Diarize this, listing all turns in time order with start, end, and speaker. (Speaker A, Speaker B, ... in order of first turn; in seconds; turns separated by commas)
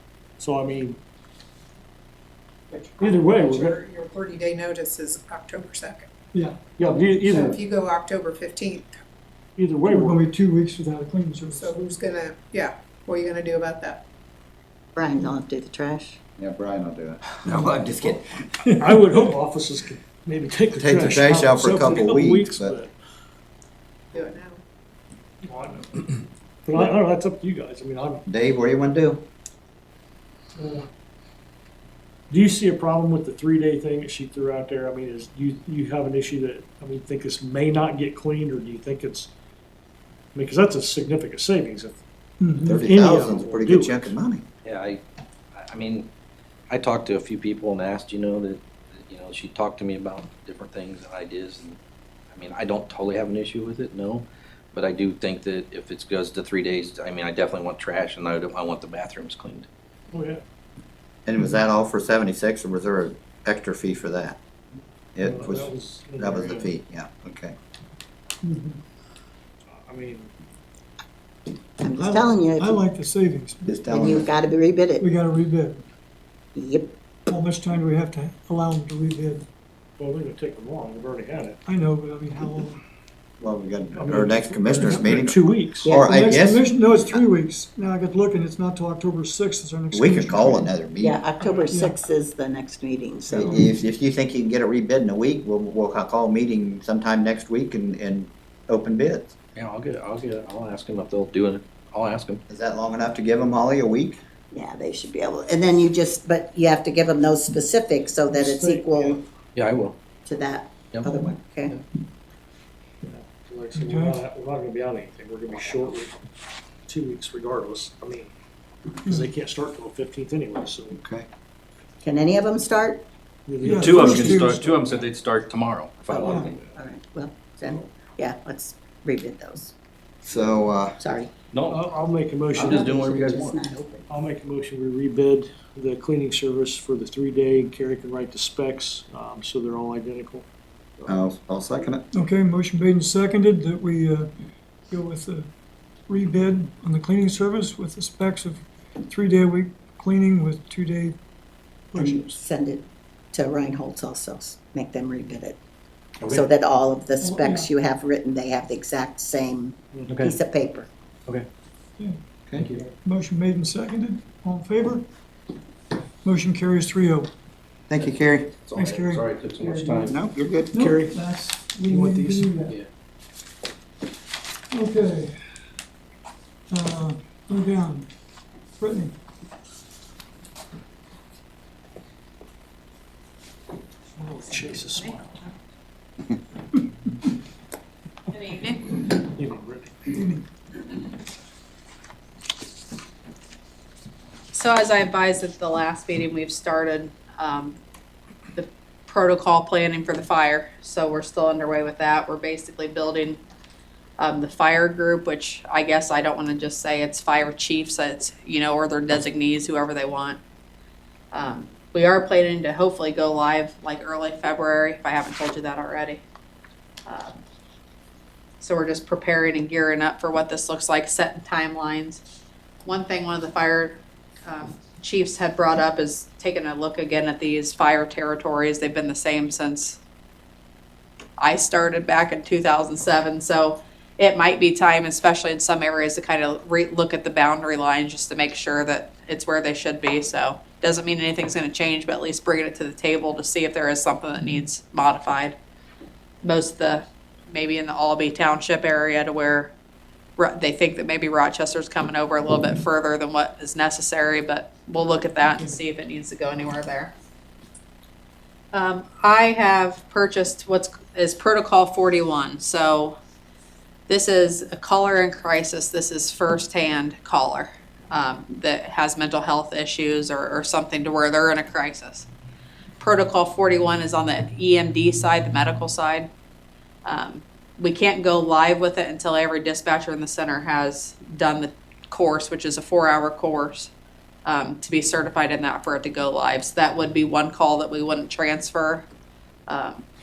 Speaker A: 0.4-1.0, Speaker B: 2.7-6.1, Speaker A: 3.0-3.8, Speaker C: 6.3-7.6, Speaker A: 6.8-7.6, Speaker B: 6.8-9.0, Speaker A: 9.6-10.2, Speaker C: 9.9-11.7, Speaker B: 11.5-14.0, Speaker D: 14.9-16.2, Speaker E: 16.4-18.4, Speaker C: 18.6-19.3, Speaker A: 18.8-22.9, Speaker E: 20.7-22.8, Speaker B: 24.1-24.6, Speaker A: 25.4-28.2, Speaker E: 28.2-29.2, Speaker A: 30.6-30.9, Speaker A: 32.3-39.3, Speaker A: 40.3-42.0, Speaker C: 42.4-42.9, Speaker E: 42.6-44.4, Speaker A: 42.8-44.1, Speaker F: 44.6-45.0, Speaker F: 45.5-46.1, Speaker F: 46.7-51.8, Speaker F: 52.3-59.7, Speaker A: 60.1-60.4, Speaker E: 61.2-64.4, Speaker E: 65.1-67.5, Speaker A: 65.2-66.7, Speaker C: 68.4-68.8, Speaker A: 69.7-70.3, Speaker D: 71.8-72.8, Speaker C: 72.0-73.8, Speaker E: 73.7-74.3, Speaker D: 73.9-75.1, Speaker C: 75.0-75.8, Speaker D: 76.5-76.9, Speaker C: 77.3-79.5, Speaker A: 80.0-81.6, Speaker C: 81.7-82.8, Speaker E: 83.4-87.2, Speaker A: 83.9-85.9, Speaker C: 84.1-85.2, Speaker C: 85.8-90.7, Speaker E: 89.9-91.2, Speaker D: 91.0-93.6, Speaker C: 91.7-92.0, Speaker C: 93.3-93.7, Speaker E: 93.3-99.3, Speaker F: 99.5-102.4, Speaker E: 102.5-104.2, Speaker D: 104.5-109.2, Speaker A: 108.3-109.2, Speaker F: 109.5-110.0, Speaker D: 110.2-111.8, Speaker F: 110.9-111.8, Speaker A: 113.0-116.1, Speaker C: 113.8-114.2, Speaker A: 116.9-118.3, Speaker A: 119.0-121.0, Speaker E: 121.0-121.2, Speaker D: 122.0-123.0, Speaker A: 123.5-124.7, Speaker C: 123.6-124.8, Speaker F: 123.7-126.6, Speaker D: 126.1-129.7, Speaker C: 126.2-126.5, Speaker E: 130.2-131.0, Speaker D: 131.0-131.3, Speaker F: 131.5-131.9, Speaker A: 131.7-132.9, Speaker F: 132.5-133.6, Speaker D: 132.5-134.1, Speaker A: 134.1-140.4, Speaker E: 141.1-142.1, Speaker C: 142.1-144.3, Speaker C: 144.9-145.5, Speaker C: 146.1-151.2, Speaker C: 151.9-152.3, Speaker D: 151.9-155.6, Speaker D: 156.2-160.9, Speaker C: 157.2-157.7, Speaker F: 160.1-160.4, Speaker E: 162.5-162.7, Speaker F: 162.5-162.8, Speaker C: 162.8-165.1, Speaker C: 166.2-167.3, Speaker E: 167.9-168.6, Speaker F: 168.0-170.2, Speaker C: 168.7-170.1, Speaker E: 170.0-170.9, Speaker C: 170.7-172.8, Speaker A: 170.7-171.2, Speaker A: 171.8-172.6, Speaker C: 174.7-175.4, Speaker C: 176.7-178.1, Speaker C: 178.8-179.2, Speaker A: 184.2-185.3, Speaker G: 188.3-189.0, Speaker A: 189.2-190.2, Speaker G: 194.5-197.8, Speaker G: 198.5-203.4, Speaker G: 204.2-210.4, Speaker G: 211.3-216.2, Speaker G: 217.1-217.4, Speaker G: 218.6-222.2, Speaker G: 222.8-230.0, Speaker G: 231.4-245.6, Speaker G: 246.4-249.7, Speaker G: 250.4-257.1, Speaker G: 258.7-263.1, Speaker G: 264.1-272.3, Speaker G: 273.0-276.3, Speaker G: 277.0-283.9, Speaker G: 284.4-289.1, Speaker G: 289.7-290.0